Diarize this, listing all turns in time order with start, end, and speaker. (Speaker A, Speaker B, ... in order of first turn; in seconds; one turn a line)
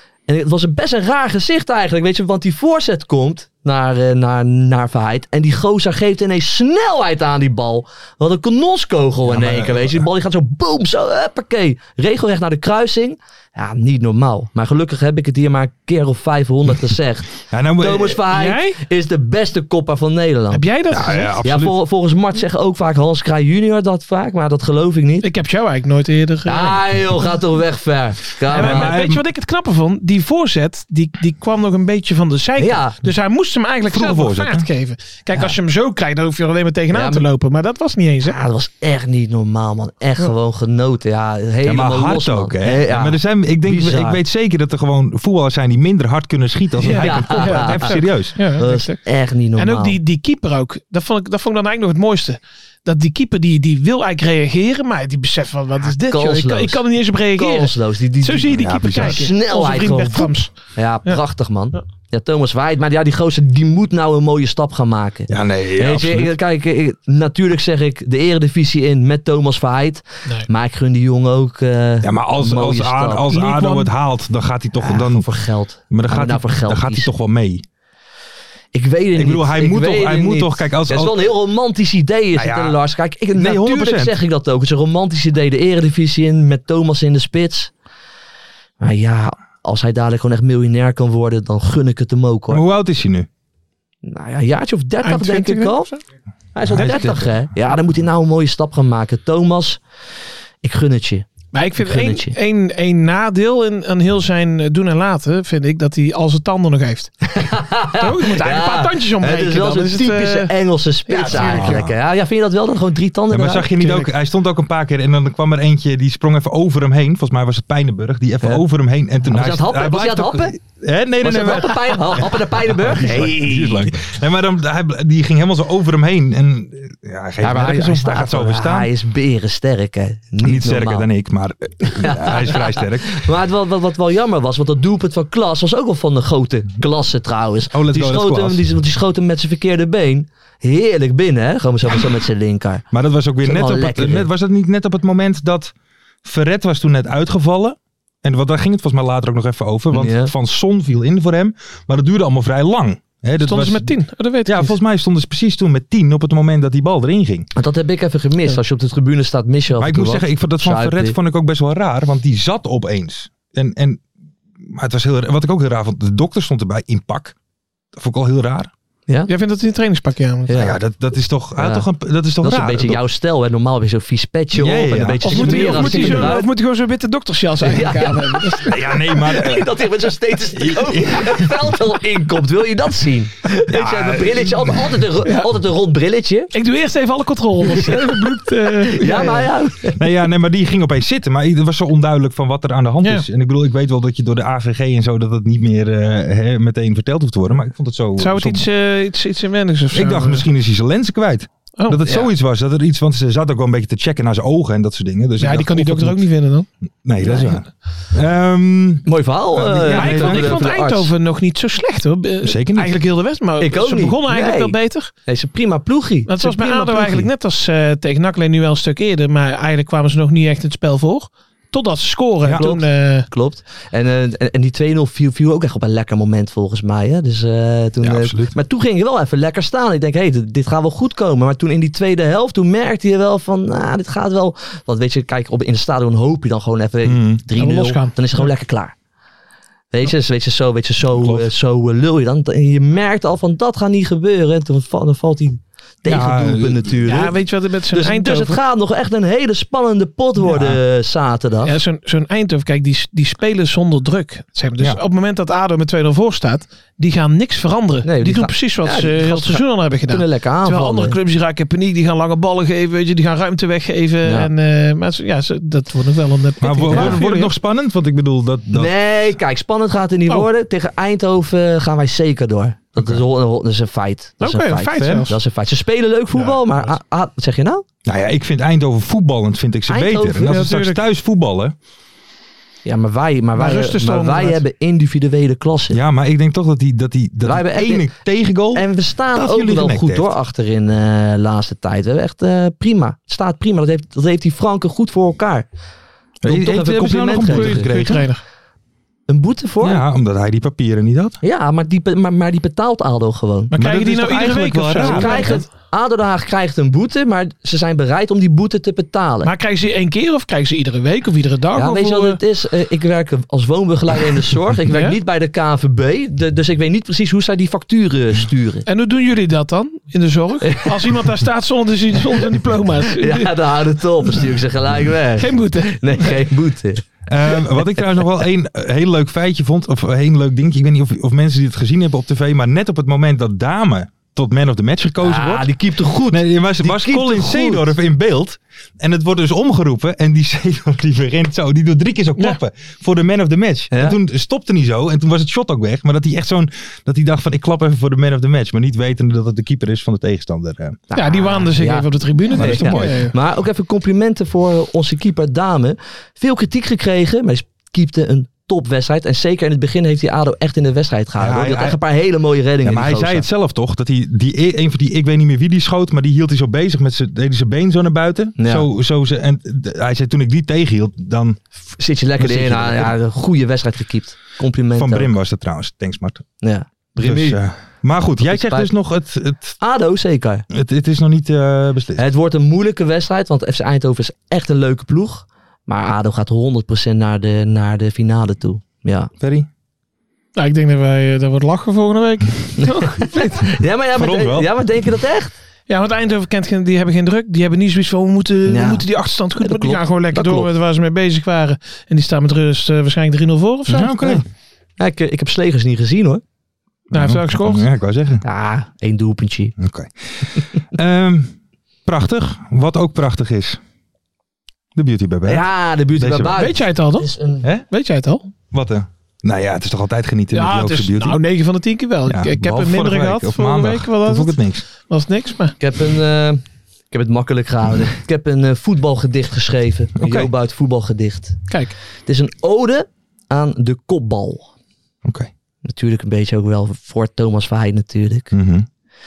Speaker A: 0.3-20.6
Speaker B: 9.3-10.1
Speaker B: 17.5-18.2
Speaker C: 18.3-18.8
Speaker C: 20.5-21.3
Speaker B: 20.9-21.8
Speaker A: 21.4-25.3
Speaker C: 25.2-26.8
Speaker A: 26.5-29.0
Speaker C: 28.5-38.4
Speaker B: 28.5-29.2
Speaker A: 32.6-32.9
Speaker B: 33.9-34.7
Speaker A: 36.9-37.2
Speaker A: 38.2-44.2
Speaker B: 41.6-48.4
Speaker C: 46.8-49.0
Speaker A: 46.9-48.0
Speaker A: 48.5-50.0
Speaker C: 49.6-60.5
Speaker A: 56.1-73.3
Speaker B: 58.5-59.2
Speaker B: 65.3-66.3
Speaker B: 72.0-75.3
Speaker C: 73.3-73.9
Speaker A: 74.8-77.1
Speaker B: 75.9-77.6
Speaker A: 78.7-87.7
Speaker B: 79.2-81.3
Speaker B: 82.3-82.8
Speaker B: 83.3-84.2
Speaker A: 88.8-92.6
Speaker B: 92.5-93.3
Speaker A: 94.0-95.9
Speaker C: 95.0-96.0
Speaker A: 96.5-99.8
Speaker B: 96.6-97.4
Speaker A: 100.6-102.3
Speaker C: 101.5-107.3
Speaker A: 107.3-114.0
Speaker C: 107.9-110.5
Speaker C: 111.1-111.8
Speaker B: 111.3-112.0
Speaker B: 113.3-128.9
Speaker A: 119.3-120.6
Speaker A: 121.2-123.9
Speaker A: 127.4-131.1
Speaker B: 130.4-133.3
Speaker A: 131.8-142.8
Speaker B: 137.7-138.7
Speaker B: 142.9-145.7
Speaker A: 143.4-144.3
Speaker B: 146.2-157.5
Speaker A: 149.9-150.3
Speaker C: 153.4-154.8
Speaker A: 157.6-161.2
Speaker B: 159.8-164.0
Speaker B: 164.6-167.4
Speaker B: 168.0-168.7
Speaker C: 169.3-170.5
Speaker A: 170.5-170.8
Speaker B: 170.5-173.0
Speaker A: 171.6-171.9
Speaker A: 172.4-176.5
Speaker B: 174.5-176.4
Speaker C: 175.2-178.8
Speaker A: 177.6-186.5
Speaker B: 178.7-179.7
Speaker B: 180.5-181.7
Speaker B: 183.7-185.1
Speaker C: 186.5-189.5
Speaker A: 188.9-190.0
Speaker B: 190.0-198.7
Speaker C: 193.0-193.3
Speaker C: 198.2-200.4
Speaker B: 199.9-206.3
Speaker C: 201.8-202.1
Speaker C: 205.4-206.7
Speaker B: 207.0-210.7
Speaker A: 207.2-207.6
Speaker A: 209.1-211.1
Speaker C: 209.9-215.1
Speaker B: 212.4-213.0
Speaker A: 213.6-217.3
Speaker C: 216.3-223.3
Speaker A: 222.6-238.9
Speaker B: 228.0-228.6
Speaker B: 237.1-237.4
Speaker C: 237.6-238.5
Speaker A: 239.9-247.4
Speaker B: 241.1-241.5
Speaker B: 246.1-247.0
Speaker C: 247.1-248.6
Speaker A: 247.9-251.7
Speaker B: 250.4-250.8
Speaker C: 251.7-267.5
Speaker A: 258.0-261.1
Speaker A: 264.2-264.5
Speaker B: 266.6-268.9
Speaker A: 266.9-267.2
Speaker A: 268.7-277.9
Speaker B: 273.0-273.2
Speaker C: 274.4-275.4
Speaker C: 276.4-276.9
Speaker B: 278.1-281.8
Speaker A: 279.9-280.6
Speaker C: 280.4-281.0
Speaker A: 282.9-286.0
Speaker C: 283.6-284.6
Speaker B: 285.9-290.3
Speaker A: 287.4-288.1
Speaker A: 288.7-295.7
Speaker B: 296.4-298.2
Speaker A: 296.4-298.1
Speaker C: 297.3-298.4
Speaker A: 299.3-300.0
Speaker B: 299.8-301.4
Speaker A: 301.4-303.7
Speaker C: 303.7-305.7
Speaker B: 303.8-305.6
Speaker A: 305.0-309.5
Speaker C: 309.4-312.4
Speaker A: 311.8-318.9
Speaker C: 314.9-315.2
Speaker C: 318.9-323.6
Speaker A: 320.7-321.2
Speaker A: 323.2-327.1
Speaker C: 325.4-326.5
Speaker B: 327.3-335.7
Speaker A: 335.2-337.9
Speaker B: 336.3-351.0
Speaker A: 343.9-344.2
Speaker A: 351.1-363.5
Speaker C: 351.1-353.3
Speaker B: 352.5-353.3
Speaker B: 361.4-362.0
Speaker B: 362.8-371.6
Speaker A: 368.6-368.9
Speaker A: 372.0-375.3
Speaker B: 372.4-373.1
Speaker B: 375.0-376.5
Speaker A: 376.6-377.6
Speaker B: 377.2-379.8
Speaker A: 378.4-378.9
Speaker A: 379.8-380.6
Speaker B: 380.7-382.2
Speaker A: 382.2-389.3
Speaker B: 389.4-389.7
Speaker C: 390.6-393.6
Speaker A: 392.8-395.5
Speaker B: 394.1-394.7
Speaker C: 395.9-404.4
Speaker A: 398.7-399.1
Speaker A: 399.6-400.7
Speaker B: 403.9-404.4
Speaker A: 405.0-406.4
Speaker C: 407.1-407.9
Speaker B: 407.1-408.4
Speaker A: 408.4-409.8
Speaker B: 409.8-413.8
Speaker B: 414.9-416.6
Speaker A: 415.4-417.7
Speaker C: 416.5-417.3
Speaker C: 417.9-418.5
Speaker B: 418.7-421.4
Speaker C: 420.5-425.8
Speaker B: 422.3-424.8
Speaker A: 425.8-431.7
Speaker B: 430.2-430.5
Speaker C: 431.7-431.9
Speaker A: 432.3-434.7
Speaker B: 435.2-435.5
Speaker A: 435.9-438.5
Speaker B: 438.5-438.9